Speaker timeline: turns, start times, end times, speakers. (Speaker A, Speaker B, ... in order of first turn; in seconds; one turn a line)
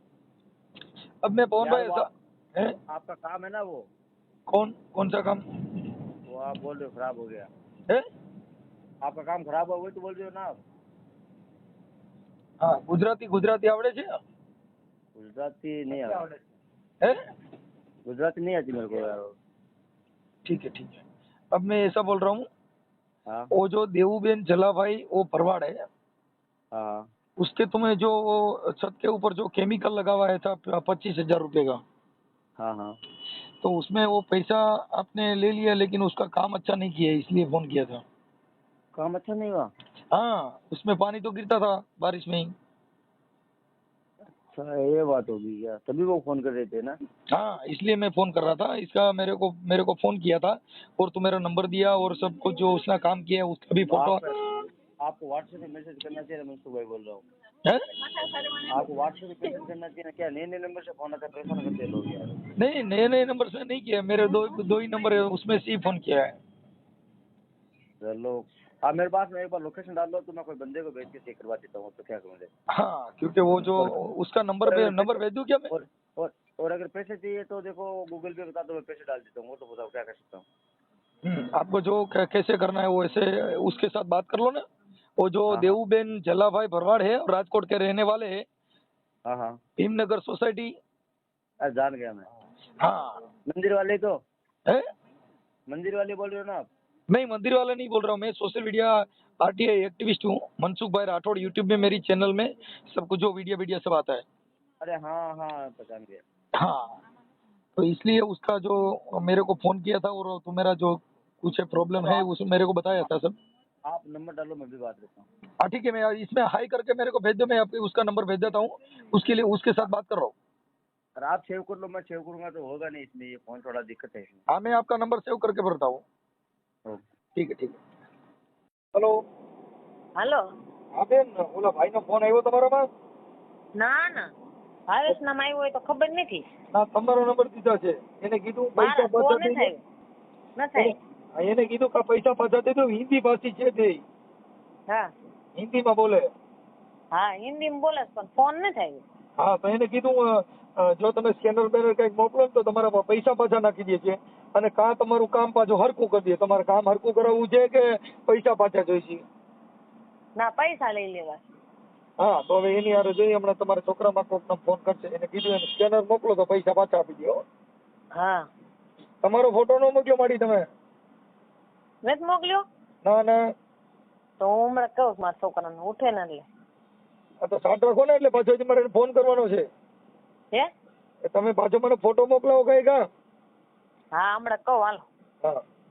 Speaker A: 1.2-2.8
Speaker B: 1.6-2.1
Speaker B: 2.9-3.9
Speaker A: 4.5-5.9
Speaker B: 6.3-7.5
Speaker B: 9.0-10.6
Speaker A: 12.6-14.1
Speaker B: 15.2-16.3
Speaker B: 18.1-19.3
Speaker A: 20.4-22.5
Speaker A: 23.5-25.8
Speaker B: 26.7-27.0
Speaker A: 27.4-31.8
Speaker B: 32.6-33.0
Speaker A: 33.6-38.0
Speaker B: 38.9-39.7
Speaker A: 40.1-42.5
Speaker B: 44.5-47.0
Speaker A: 47.3-54.3
Speaker B: 53.9-54.5
Speaker B: 55.0-57.3
Speaker B: 58.7-62.4
Speaker A: 62.6-66.3
Speaker B: 68.0-72.5
Speaker A: 72.7-75.7
Speaker B: 74.7-80.4
Speaker A: 81.2-84.6
Speaker A: 85.2-88.4
Speaker B: 85.5-85.8
Speaker B: 89.3-89.5
Speaker A: 89.8-90.7
Speaker B: 91.6-92.3
Speaker A: 92.8-93.2
Speaker B: 93.5-94.1
Speaker B: 95.7-96.7
Speaker A: 97.1-104.2
Speaker B: 104.8-106.2
Speaker A: 106.6-106.9
Speaker A: 107.8-113.4
Speaker B: 112.0-112.2
Speaker B: 113.9-115.3
Speaker A: 115.6-120.3
Speaker B: 121.2-124.4
Speaker A: 124.5-126.0
Speaker A: 127.4-127.8
Speaker C: 130.2-130.4
Speaker A: 130.9-132.8
Speaker C: 133.8-134.3
Speaker C: 134.9-136.4
Speaker A: 136.7-139.7
Speaker C: 138.8-139.8
Speaker C: 140.6-140.9
Speaker A: 140.8-144.0
Speaker A: 145.6-146.3
Speaker C: 147.1-149.0
Speaker A: 149.4-159.2
Speaker C: 160.4-161.4
Speaker A: 162.2-167.4
Speaker C: 168.2-168.4
Speaker A: 169.2-170.6
Speaker C: 172.0-172.7
Speaker A: 173.1-173.4
Speaker C: 174.4-176.4
Speaker A: 177.4-179.7
Speaker A: 181.3-183.0
Speaker C: 184.2-185.1